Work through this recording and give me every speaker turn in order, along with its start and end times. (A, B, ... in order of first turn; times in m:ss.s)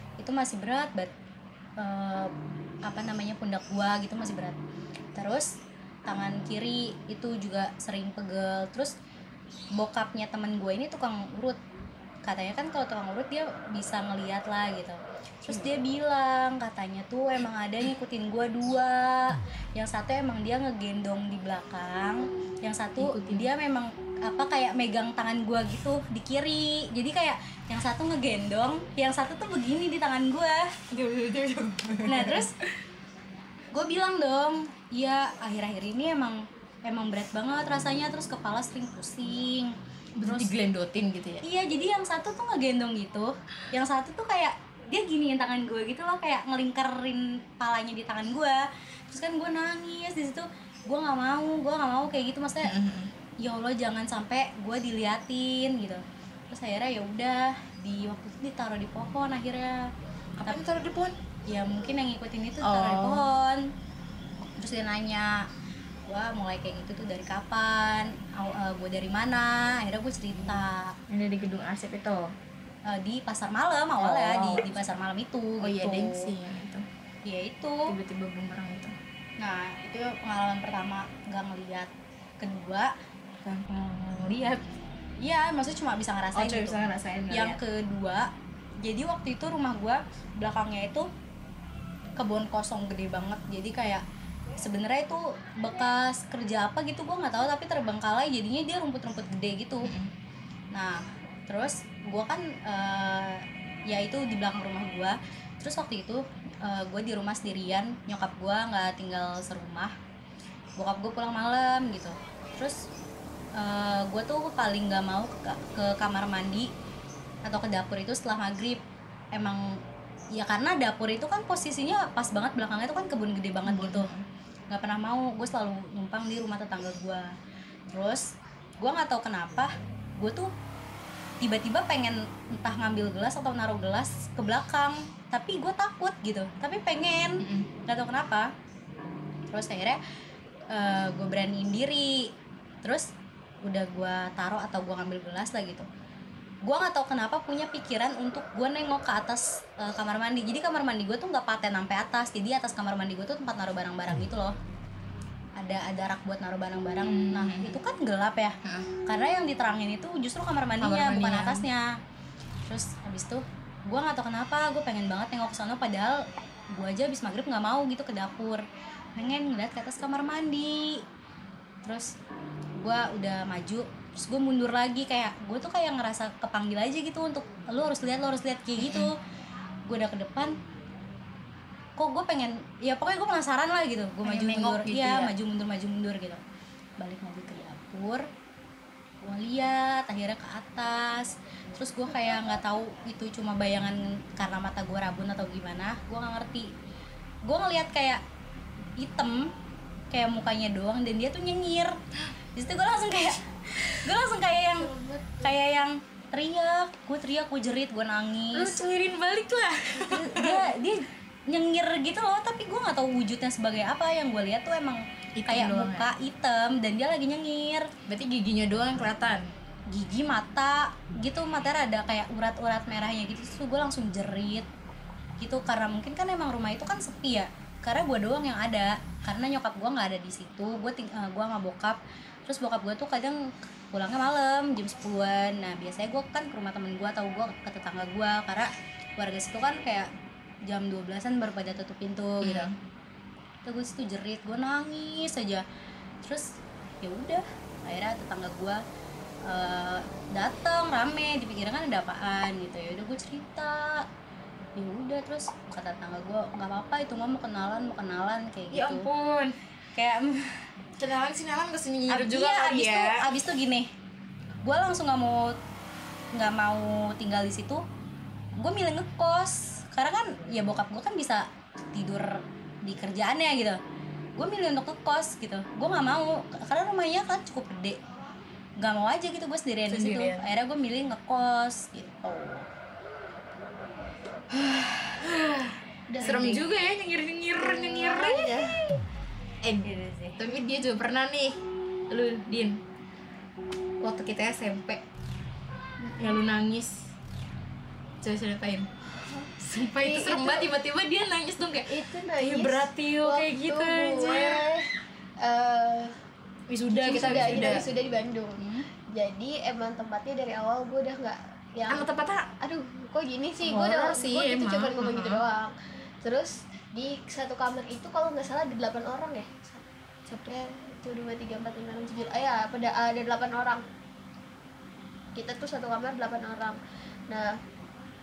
0:00.2-0:01.1 A
0:01.8-0:02.3 A
0:02.8-0:04.6 A
0:05.2-0:05.5 A
0:06.1-0:08.9 A
0:09.7-0:11.6 A
0:12.2-0:30.7 A
0:15.5-0:15.7 B
0:23.0-0:23.5 B
0:30.9-0:32.6 B
0:32.0-0:32.5 A
0:33.7-0:39.7 A
0:40.2-0:41.4 B
0:40.2-0:40.5 A
0:41.4-0:52.8 A
0:52.6-0:53.1 B
0:53.4-0:59.9 A
1:00.4-1:01.2 B
1:01.5-1:03.7 A
1:02.6-1:03.3 B
1:04.6-1:05.4 A
1:06.1-1:11.0 A
1:10.4-1:12.3 B
1:12.8-1:16.3 A
1:14.0-1:14.8 B
1:15.6-1:16.8 B
1:17.2-1:17.9 A
1:17.9-1:19.0 B
1:19.4-1:22.9 A
1:23.4-1:24.6 B
1:25.2-1:26.8 A
1:26.3-1:27.6 B
1:27.3-1:28.3 A
1:28.8-1:31.1 A
1:32.2-1:34.0 A
1:34.6-1:39.9 A
1:39.8-1:40.1 B
1:40.7-1:49.9 A
1:50.8-1:52.9 A
1:53.6-1:56.7 A
1:57.4-1:58.8 A
1:59.3-1:59.8 A
2:00.3-2:04.1 A
2:03.6-2:04.2 B
2:04.7-2:07.3 A
2:07.9-2:10.5 A
2:11.4-2:18.5 A
2:17.4-2:17.7 B
2:19.5-2:20.0 A
2:20.7-2:22.3 A
2:22.8-2:23.1 A
2:23.6-2:25.9 A
2:26.6-2:34.5 A
2:35.6-2:42.0 A
2:37.0-2:37.8 B
2:38.6-2:38.9 B
2:40.8-2:41.6 B
2:42.6-2:48.6 A
2:49.1-2:51.0 A
2:51.8-2:52.1 A
2:52.8-2:59.2 A
2:58.8-2:59.1 B
2:59.8-3:00.6 A
3:02.0-3:06.4 A
3:04.2-3:05.3 B
3:07.0-3:08.3 A
3:09.2-3:16.7 A
3:17.4-3:18.2 A
3:19.0-3:19.5 A
3:20.1-3:22.0 A
3:22.5-3:24.9 A
3:24.7-3:25.5 C
3:25.4-3:28.8 A
3:28.5-3:30.7 B
3:30.1-3:37.9 A
3:35.4-3:36.1 B
3:38.1-3:39.5 B
3:39.9-3:44.7 A
3:45.4-4:00.1 A
4:00.6-4:02.7 A
4:02.4-4:02.8 B
4:03.6-4:05.6 A
4:07.0-4:08.8 A
4:09.4-4:14.1 A
4:14.8-4:19.1 A
4:18.7-4:19.6 B
4:19.9-4:20.6 A
4:21.0-4:23.3 B
4:22.1-4:23.9 A
4:24.6-4:25.5 A
4:26.3-4:27.8 A
4:28.6-4:33.8 A
4:34.4-4:38.0 A
4:38.8-4:42.7 A
4:39.9-4:40.5 B
4:44.5-4:48.8 B
4:46.1-4:46.6 C
4:46.2-4:46.6 A
4:47.6-4:48.8 C
4:49.6-4:51.6 B
4:49.8-4:50.4 A
4:52.1-4:52.8 B
4:54.0-4:55.0 B
4:56.0-4:56.4 C
4:56.2-4:57.1 B
4:58.2-4:58.9 B
4:59.2-5:00.7 C
4:59.6-5:04.6 B
5:01.9-5:06.1 C
5:06.7-5:07.8 B
5:06.9-5:12.1 C
5:11.9-5:12.5 B
5:12.6-5:23.8 C
5:13.6-5:15.4 B
5:25.4-5:27.6 C